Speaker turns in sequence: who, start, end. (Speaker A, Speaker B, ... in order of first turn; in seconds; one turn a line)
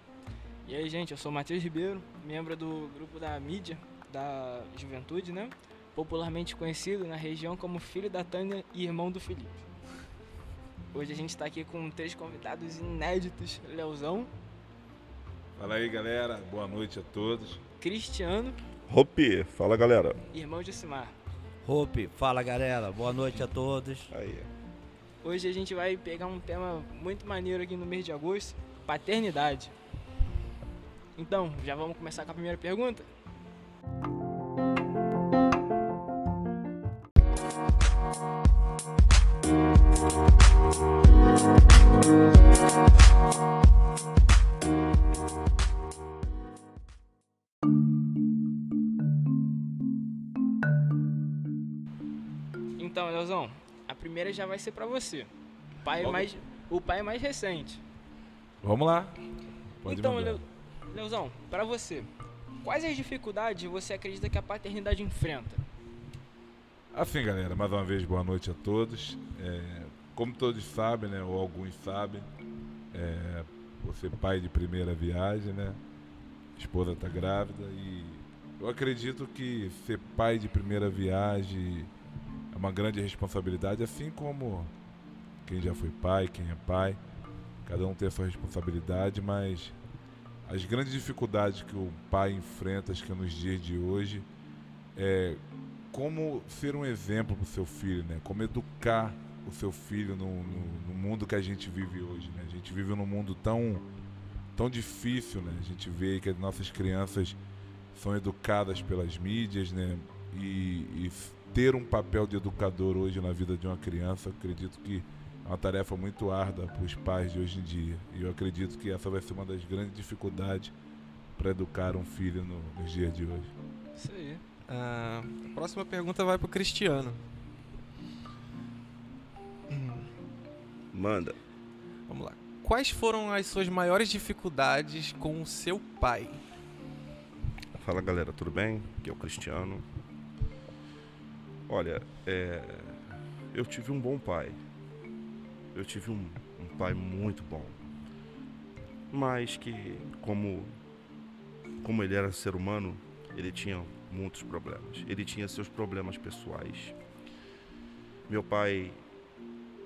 Speaker A: 0.6-9.6
Speaker A: 10.9-14.3
Speaker B: 15.6-17.6
Speaker A: 17.8-18.6
Speaker C: 18.9-20.2
Speaker A: 20.3-21.2
Speaker D: 21.6-24.1
Speaker C: 24.1-24.5
Speaker A: 25.2-29.7
Speaker A: 31.2-33.1
Speaker A: 52.8-55.3
Speaker A: 55.8-57.8
Speaker B: 56.0-56.3
Speaker B: 58.6-59.2
Speaker B: 59.8-60.4
Speaker A: 59.9-65.7
Speaker B: 66.9-72.3
Speaker B: 72.9-75.8
Speaker B: 76.5-81.9
Speaker B: 82.5-84.7
Speaker B: 85.5-87.0
Speaker B: 87.7-89.8
Speaker B: 90.5-94.3
Speaker B: 94.9-103.8
Speaker B: 104.5-107.4
Speaker B: 107.9-120.7
Speaker B: 121.3-123.5
Speaker A: 123.9-124.4
Speaker E: 124.7-127.2
Speaker E: 129.7-130.1
Speaker C: 130.9-131.4
Speaker E: 132.1-136.4
Speaker C: 137.8-139.8
Speaker C: 141.7-143.0
Speaker C: 143.5-144.6
Speaker C: 145.7-147.8
Speaker C: 149.1-150.8
Speaker C: 151.8-157.0
Speaker C: 158.3-159.0